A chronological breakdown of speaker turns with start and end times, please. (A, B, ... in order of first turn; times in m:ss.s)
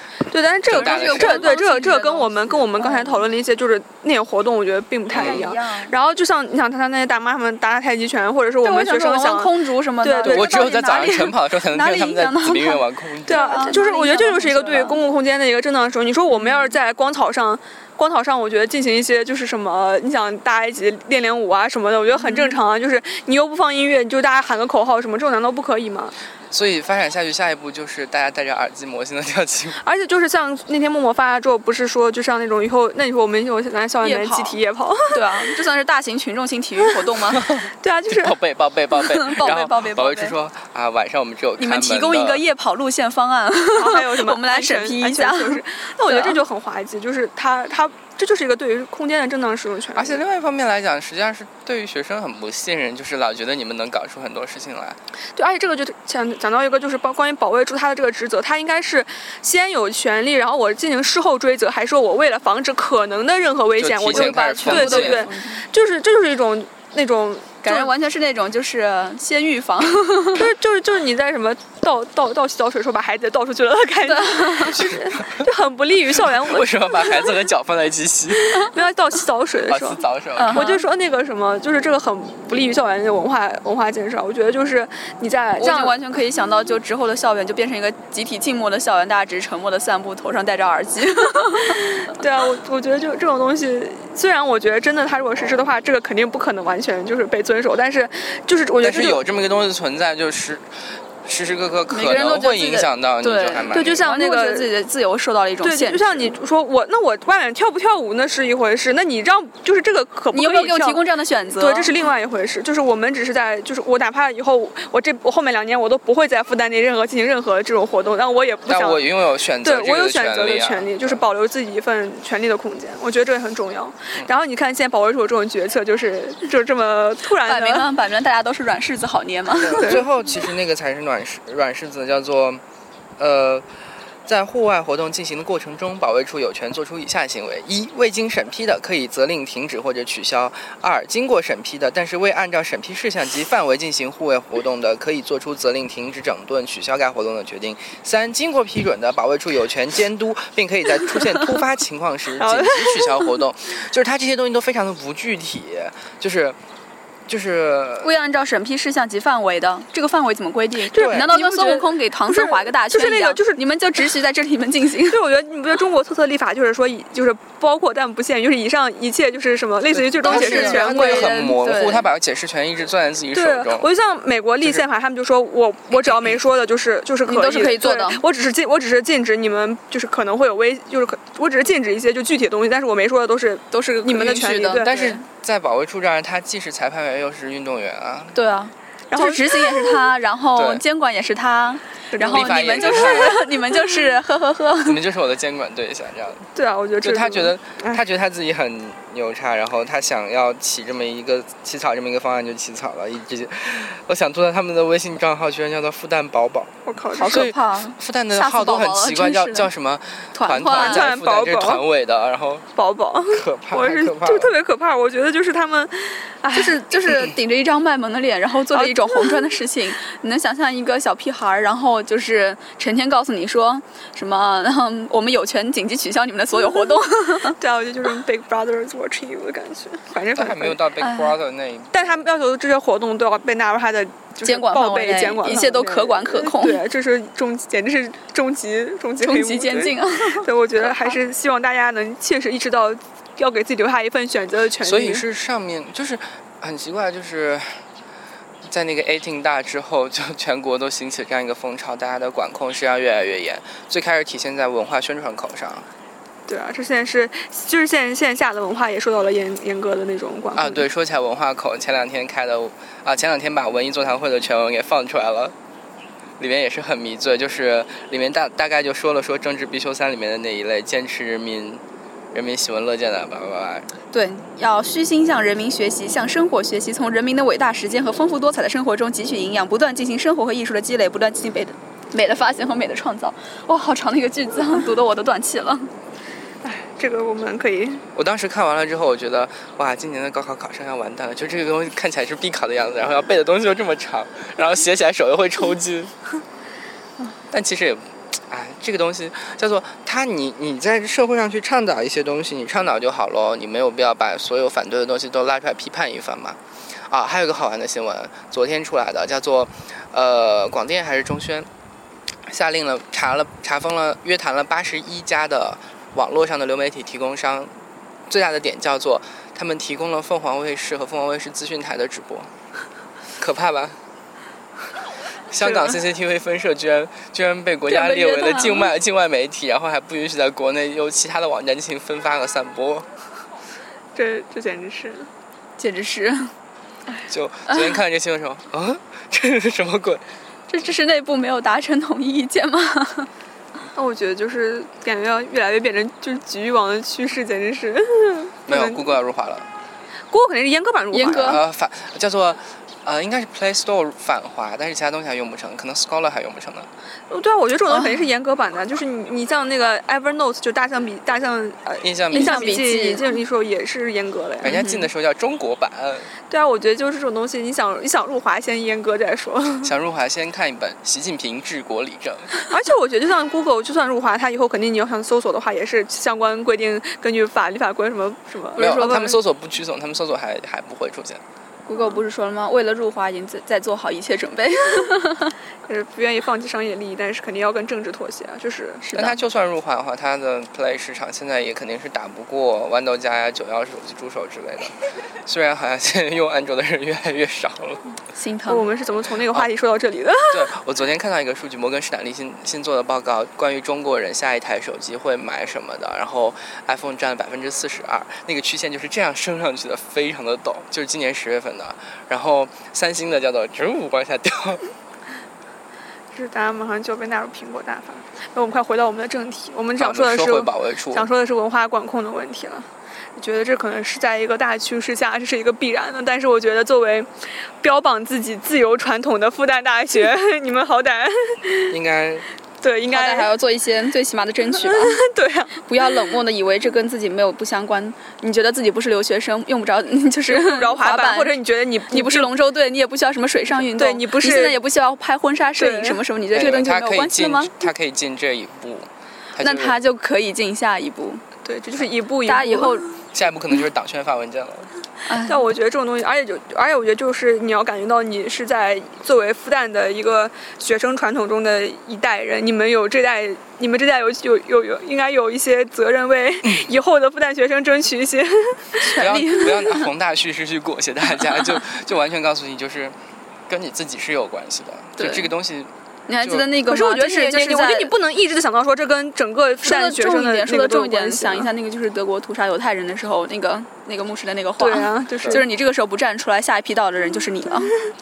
0:00.3-0:10.6 A
0:00.6-0:01.5 B
0:00.7-0:03.3 C
0:05.1-0:05.4 B
0:05.2-0:05.9 C
0:08.6-0:15.0 C
0:10.2-0:13.7 B
0:13.3-0:26.1 A
0:16.3-0:16.7 C
0:22.2-0:22.6 C
0:26.5-0:29.8 B
0:29.7-0:35.6 A
0:34.0-0:37.6 C
0:37.6-0:38.4 A
0:38.1-0:42.4 B
0:39.0-0:40.4 C
0:41.6-0:46.4 C
0:43.7-0:50.2 A
0:49.9-0:55.0 B
0:55.4-1:07.9 A
1:03.8-1:05.3 B
1:04.1-1:05.6 C
1:07.6-1:10.5 C
1:10.3-1:17.4 A
1:14.0-1:14.8 C
1:14.7-1:15.4 B
1:16.2-1:18.5 B
1:18.3-1:26.0 A
1:19.7-1:20.8 B
1:20.4-1:20.9 C
1:25.6-1:31.8 C
1:32.0-1:39.2 A
1:38.8-1:40.7 B
1:41.2-1:44.0 B
1:41.9-1:46.3 C
1:43.7-1:44.7 A
1:45.6-2:07.9 A
1:50.3-1:51.9 C
1:58.7-2:01.3 B
2:07.4-2:10.0 C
2:09.6-2:12.6 B
2:09.7-2:10.0 A
2:13.2-2:13.7 B
2:14.2-2:36.6 B
2:32.4-2:33.2 A
2:37.3-2:38.1 B
2:38.0-2:45.2 C
2:40.9-2:43.6 A
2:41.0-2:41.3 B
2:45.1-2:51.3 A
2:50.2-2:53.9 B
2:50.2-2:52.1 C
2:53.3-3:05.2 A
2:54.6-2:54.9 B
2:57.2-2:58.2 C
3:03.7-3:05.0 C
3:04.7-3:08.4 B
3:08.3-3:15.0 C
3:09.1-3:10.1 A
3:10.6-3:10.8 B
3:12.1-3:14.2 A
3:12.2-3:13.4 B
3:14.8-3:16.5 B
3:16.5-3:18.0 A
3:17.0-3:26.7 B
3:26.8-3:27.5 A
3:27.1-3:29.7 C
3:27.2-3:32.6 B
3:30.3-3:31.1 C
3:30.7-3:31.8 A
3:32.8-3:37.2 A
3:33.3-3:34.5 B
3:36.5-3:47.6 C
3:38.7-3:39.6 A
3:47.6-3:50.8 A
3:50.3-3:52.2 B
3:51.0-3:51.4 C
3:51.9-4:05.2 A
3:54.4-3:56.8 C
3:59.2-4:01.2 C
4:04.8-4:07.8 B
4:08.6-4:15.9 B
4:16.5-4:20.9 A
4:20.5-4:25.5 B
4:26.4-4:31.8 B
4:32.3-4:33.9 B
4:34.1-4:45.9 C
4:46.6-4:48.0 A
4:48.1-4:56.1 B
4:57.5-5:06.6 B
5:07.1-5:11.7 B
5:12.5-5:17.7 B
5:18.3-5:22.5 B
5:23.4-5:24.0 B
5:25.5-5:33.1 B
5:25.6-5:26.0 A
5:27.9-5:28.9 C
5:34.1-5:35.3 A
5:35.8-5:36.5 C
5:37.3-5:40.2 B
5:37.7-5:38.0 C
5:40.7-5:43.3 C
5:43.9-5:49.2 A
5:48.7-5:49.7 B
5:50.3-5:51.6 A
5:51.1-5:51.6 C
5:51.4-5:56.9 B
5:57.3-6:04.8 A
5:57.9-5:58.3 C
6:02.0-6:02.8 B
6:02.3-6:03.3 C
6:04.6-6:06.3 B
6:04.6-6:05.1 C
6:06.5-6:09.9 A
6:09.8-6:12.5 B
6:12.7-6:19.4 A
6:18.8-6:21.4 B
6:21.9-6:25.6 C
6:21.9-6:22.2 A
6:25.8-6:29.1 A
6:29.0-6:29.4 C
6:29.1-6:34.9 B
6:35.4-6:38.0 B
6:38.4-6:38.9 C
6:38.7-6:40.7 A
6:40.5-6:54.8 B
6:56.3-7:07.3 A
7:00.0-7:01.3 B
7:07.8-7:11.9 A
7:11.9-7:12.4 B
7:12.8-7:13.5 A
7:13.1-7:15.2 C
7:14.7-7:16.4 A
7:15.9-7:21.5 C
7:20.5-7:22.5 A
7:22.1-7:27.9 C
7:23.9-7:24.8 A
7:25.8-7:26.2 A
7:26.5-7:30.0 B
7:29.6-7:31.4 C
7:31.6-7:33.2 A
7:32.4-7:33.1 C
7:33.3-7:34.9 B
7:35.3-7:35.7 C
7:35.4-7:49.1 A
7:49.0-7:50.1 C
7:49.1-7:53.2 B
7:53.7-7:56.7 B
7:55.2-7:55.5 C
7:56.3-7:58.1 C
7:56.8-8:01.7 A
7:59.8-8:07.9 C
8:04.8-8:05.7 A